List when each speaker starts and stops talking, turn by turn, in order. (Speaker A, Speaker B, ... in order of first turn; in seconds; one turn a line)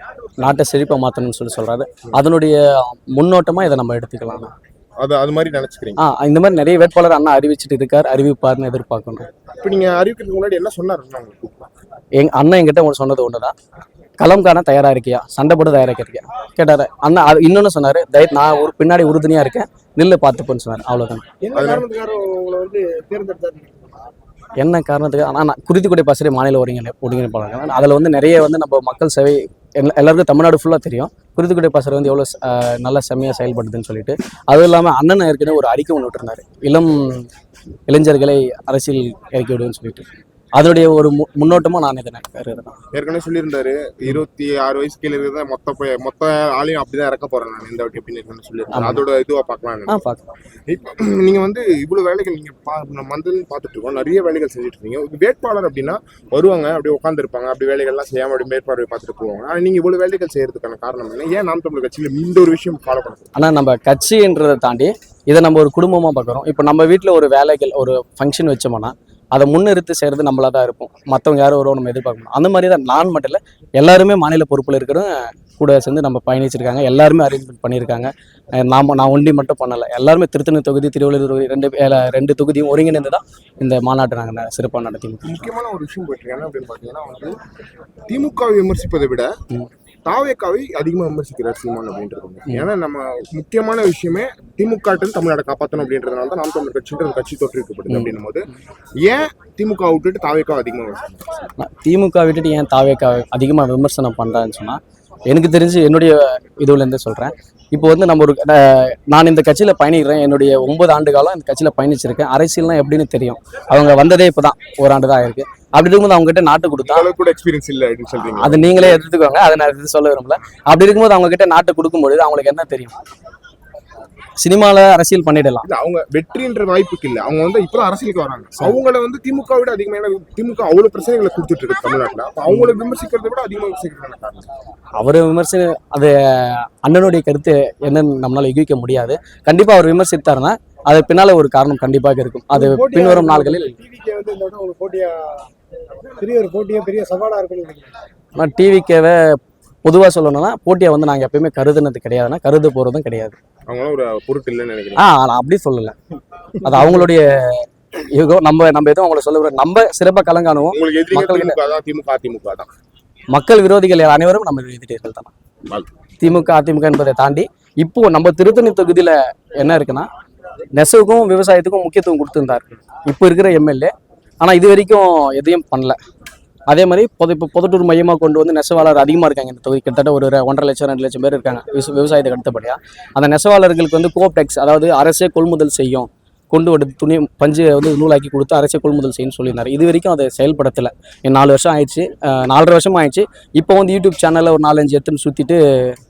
Speaker A: 0.4-4.5
Speaker B: 5.0-6.0
Speaker A: 6.0-9.3
Speaker B: 9.6-11.7
Speaker A: 12.2-13.5
Speaker A: 14.2-21.3
Speaker C: 21.4-24.1
Speaker B: 21.5-21.9
Speaker A: 24.6-37.3
Speaker A: 37.9-42.8
Speaker B: 42.9-50.0
Speaker A: 48.7-49.0
Speaker A: 49.9-50.2
Speaker B: 50.7-63.3
Speaker A: 63.4-85.4
Speaker B: 85.2-87.3
Speaker B: 88.1-89.4
Speaker B: 90.1-98.5
Speaker B: 99.0-101.5
Speaker A: 101.6-117.1
Speaker B: 116.8-119.0
Speaker A: 118.4-123.0
Speaker A: 124.4-125.7
Speaker B: 125.6-134.5
Speaker A: 135.0-143.8
Speaker C: 142.5-145.5
Speaker C: 146.2-147.9
Speaker A: 148.4-153.4
Speaker B: 153.7-155.1
Speaker A: 155.0-156.0
Speaker A: 156.6-161.6
Speaker B: 160.7-162.7
Speaker A: 163.3-165.3
Speaker A: 166.2-170.1
Speaker A: 170.7-176.0
Speaker A: 176.7-196.0